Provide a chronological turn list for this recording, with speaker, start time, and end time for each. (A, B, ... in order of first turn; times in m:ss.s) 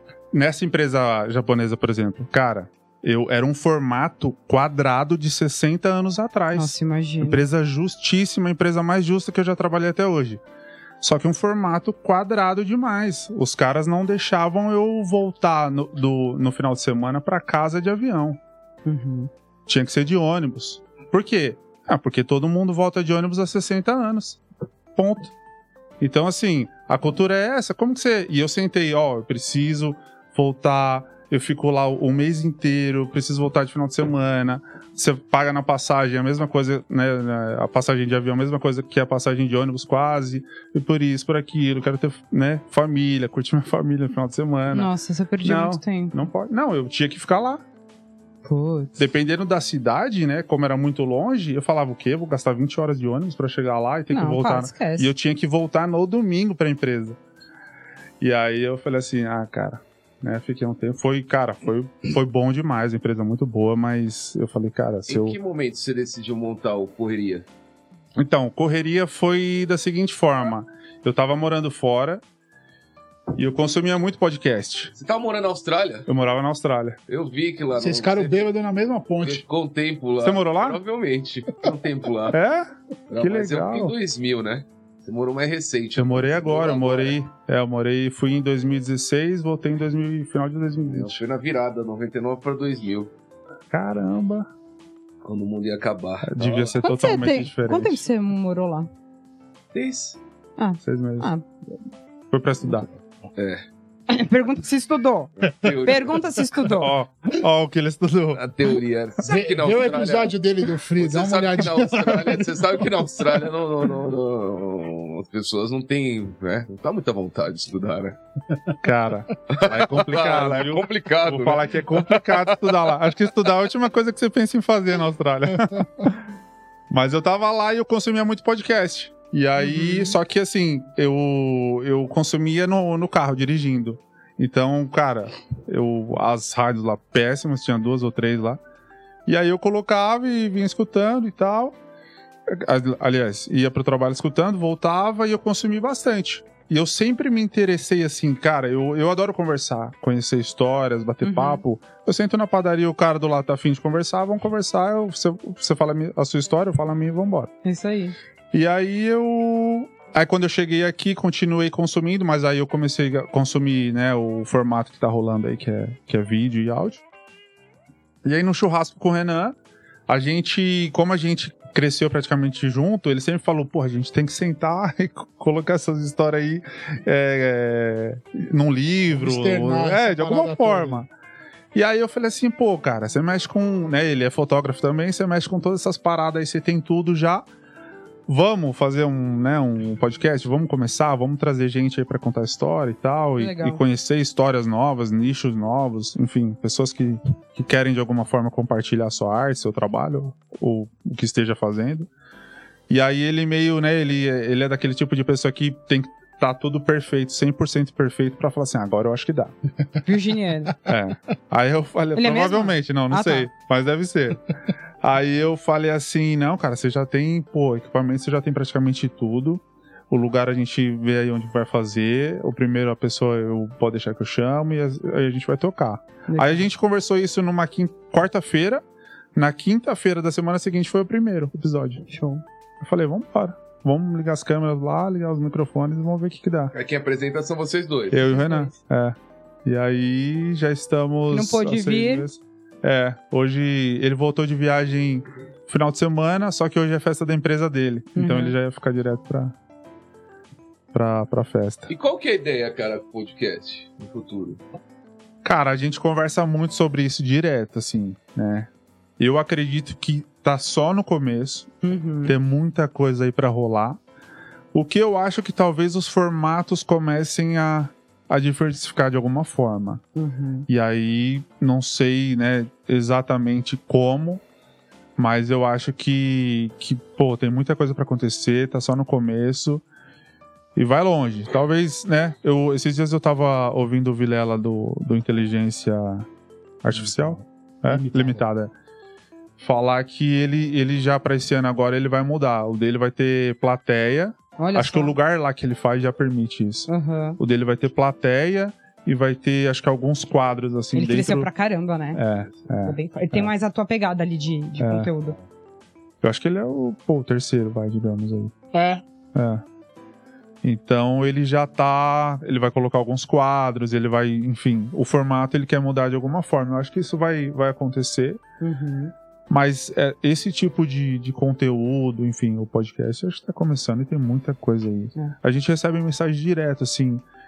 0:00.3-0:10.4 A
0:06.5-0:07.4 B
0:11.0-0:18.4 A
0:18.8-0:19.3 B
0:19.7-0:24.4 A
0:25.0-0:25.3 A
0:26.0-0:44.9 A
0:44.7-0:46.2 B
0:45.4-0:47.6 A
0:48.4-0:49.0 B
0:49.0-0:57.2 A
0:54.1-0:55.1 B
0:58.2-1:05.4 A
1:05.1-1:07.4 C
1:08.2-1:12.2 A
1:13.3-1:14.9 A
1:14.9-1:16.1 C
1:16.1-1:17.0 A
1:17.1-1:18.5 C
1:17.8-1:19.4 D
1:19.2-1:22.4 C
1:20.2-1:20.8 A
1:22.3-1:22.7 A
1:23.1-1:27.2 C
1:23.2-1:23.9 A
1:26.0-1:31.2 A
1:30.8-1:33.1 C
1:33.7-1:34.5 A
1:35.2-1:36.8 C
1:36.2-1:38.0 A
1:36.8-1:38.9 B
1:39.7-1:40.2 C
1:40.6-1:41.5 B
1:40.8-1:41.3 A
1:42.3-1:42.9 A
1:43.4-1:43.6 C
1:44.1-1:46.9 B
1:45.4-1:46.2 C
1:46.7-1:48.4 A
1:48.3-1:50.4 C
1:49.2-1:52.8 D
1:51.0-1:58.2 C
1:58.8-2:06.1 A
1:59.5-2:02.9 C
2:06.9-2:18.6 A
2:09.6-2:10.2 B
2:19.3-2:21.8 A
2:22.5-2:37.5 A
2:31.2-2:31.6 B
2:37.6-2:38.1 B
2:38.5-2:47.0 A
2:48.2-2:49.5 A
2:50.1-3:01.1 A
2:59.1-3:01.0 D
3:01.7-3:07.4 A
3:08.3-3:22.1 A
3:13.4-3:13.8 B
3:22.9-3:29.5 A
3:30.0-3:30.7 B
3:30.8-3:34.5 A
3:32.1-3:33.5 B
3:35.0-3:48.8 A
3:46.3-3:46.6 B
3:49.3-3:52.0 A
3:52.1-3:52.4 B
3:52.8-3:56.7 A
3:56.7-3:58.3 C
3:58.1-4:09.5 A
3:58.2-3:58.7 B
4:01.3-4:02.2 B
4:08.2-4:08.5 B
4:10.9-4:11.9 A
4:11.9-4:14.6 C
4:15.4-4:21.7 A
4:21.8-4:22.3 B
4:22.2-4:24.0 A
4:24.7-4:30.0 A
4:30.2-4:30.7 B
4:30.7-4:34.4 A
4:35.2-4:39.8 A
4:40.7-4:46.3 A
4:46.8-4:48.7 A
4:46.9-4:48.5 D
4:49.6-5:01.5 A
4:54.6-4:55.1 B
4:56.9-4:57.4 B
5:00.9-5:05.4 B
5:02.1-5:03.5 A
5:04.8-5:05.1 A
5:06.2-5:08.5 A
5:08.7-5:09.0 D
5:09.3-5:09.6 A
5:10.6-5:18.4 A
5:18.6-5:19.1 B
5:19.5-5:27.2 A